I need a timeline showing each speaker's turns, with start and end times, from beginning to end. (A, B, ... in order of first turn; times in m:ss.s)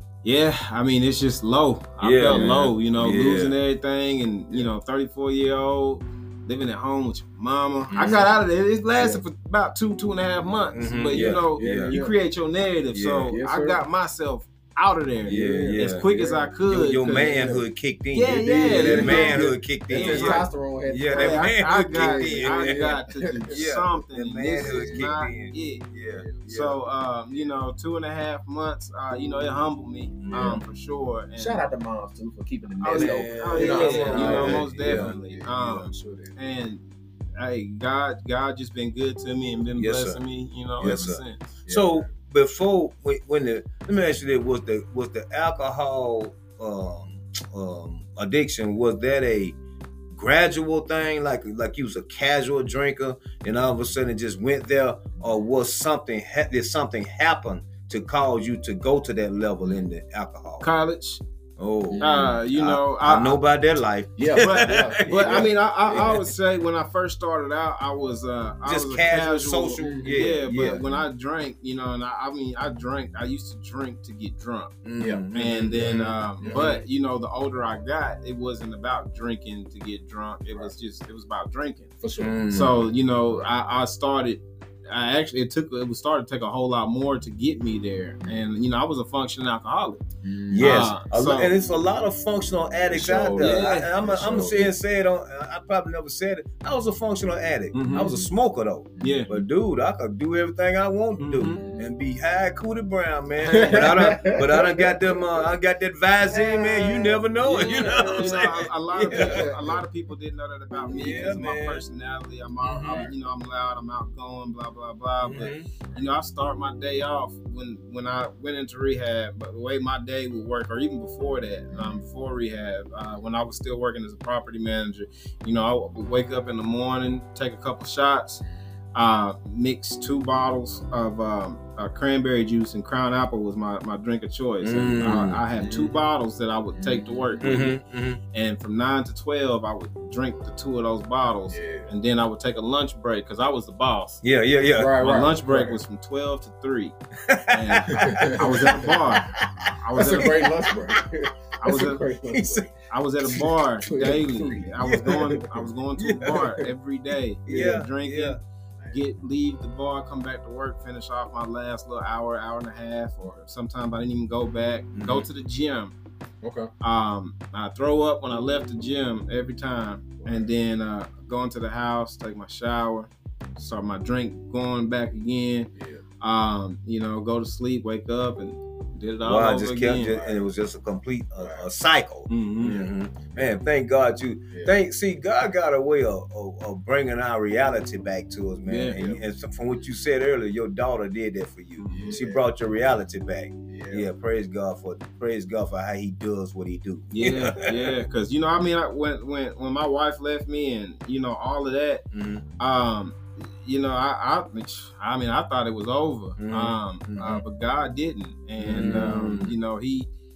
0:00.2-0:17.5 A
0:02.0-0:03.5 B
0:02.3-0:02.7 C
0:07.9-0:08.2 B
0:10.7-0:12.0 B
0:11.1-0:12.2 C
0:12.9-0:13.3 B
0:13.2-0:13.8 C
0:15.2-0:17.6 C
0:15.3-0:16.1 B
0:16.6-0:22.9 B
0:18.1-0:20.5 A
0:18.2-0:23.6 C
0:21.0-0:25.9 A
0:23.5-0:26.8 B
0:24.5-0:25.2 C
0:26.1-0:26.5 C
0:26.4-0:31.6 A
0:30.2-0:30.6 B
0:30.3-0:30.6 C
0:31.4-0:36.3 C
0:32.8-0:36.8 A
0:32.9-0:35.1 B
0:37.4-0:41.5 A
0:39.8-0:40.2 B
0:40.8-0:49.6 B
0:40.8-0:42.1 C
0:50.1-1:00.7 B
0:55.2-0:55.5 C
1:00.6-1:01.2 A
1:01.6-1:06.3 B
1:01.9-1:02.4 C
1:02.0-1:03.4 A
1:04.2-1:06.1 C
1:04.4-1:14.8 A
1:08.6-1:10.9 B
1:09.8-1:10.2 C
1:14.8-1:16.7 B
1:15.3-1:21.9 A
1:15.8-1:16.8 C
1:20.5-1:20.7 C
1:22.0-1:22.7 C
1:22.2-1:22.8 B
1:22.5-1:30.0 A
1:30.2-1:30.7 C
1:30.5-1:49.5 B
1:30.6-1:31.5 A
1:32.9-1:34.7 C
1:33.4-1:33.9 A
1:37.7-1:38.1 A
1:37.9-1:38.3 C
1:39.0-1:39.5 C
1:39.0-1:39.3 A
1:41.2-1:41.6 A
1:41.4-1:41.9 C
1:43.4-1:45.5 C
1:46.3-1:48.4 C
1:47.6-2:17.8 A
1:49.1-1:49.8 C
1:50.8-1:51.8 B
1:50.9-1:51.2 C
1:52.7-1:53.0 B
1:52.7-1:53.1 C
1:55.2-1:55.6 B
2:01.7-2:02.0 C
2:14.6-2:15.4 B
2:14.8-2:16.0 C
2:16.7-2:17.7 C
2:17.4-2:18.2 B
2:18.3-2:24.2 A
2:21.5-2:21.9 C
2:24.2-2:25.1 B
2:24.7-2:25.8 C
2:25.0-2:27.0 A
2:27.2-2:31.0 B
2:27.5-2:30.5 A
2:27.9-2:29.0 C
2:29.9-2:32.7 C
2:31.6-2:32.0 A
2:32.3-2:32.7 B
2:32.9-2:38.4 A
2:33.8-2:35.4 C
2:34.8-2:35.4 B
2:36.1-2:36.7 C
2:36.2-2:36.4 B
2:37.4-2:37.8 C
2:37.5-2:38.4 B
2:38.9-2:45.9 A
2:44.9-2:45.2 B
2:46.4-2:46.7 C
2:46.8-3:00.2 A
2:50.2-2:50.5 C
2:55.7-2:56.0 C
2:59.2-3:17.9 B
3:00.0-3:00.5 C
3:01.4-3:01.6 C
3:02.3-3:02.7 A
3:02.6-3:03.6 C
3:04.5-3:04.8 C
3:08.6-3:09.2 A
3:11.8-3:12.2 A
3:11.9-3:12.4 C
3:13.7-3:14.1 C
3:17.1-3:22.0 A
3:22.1-3:22.4 B
3:22.6-3:30.1 A
3:26.4-3:27.4 B
3:28.6-3:29.5 B
3:28.7-3:29.4 C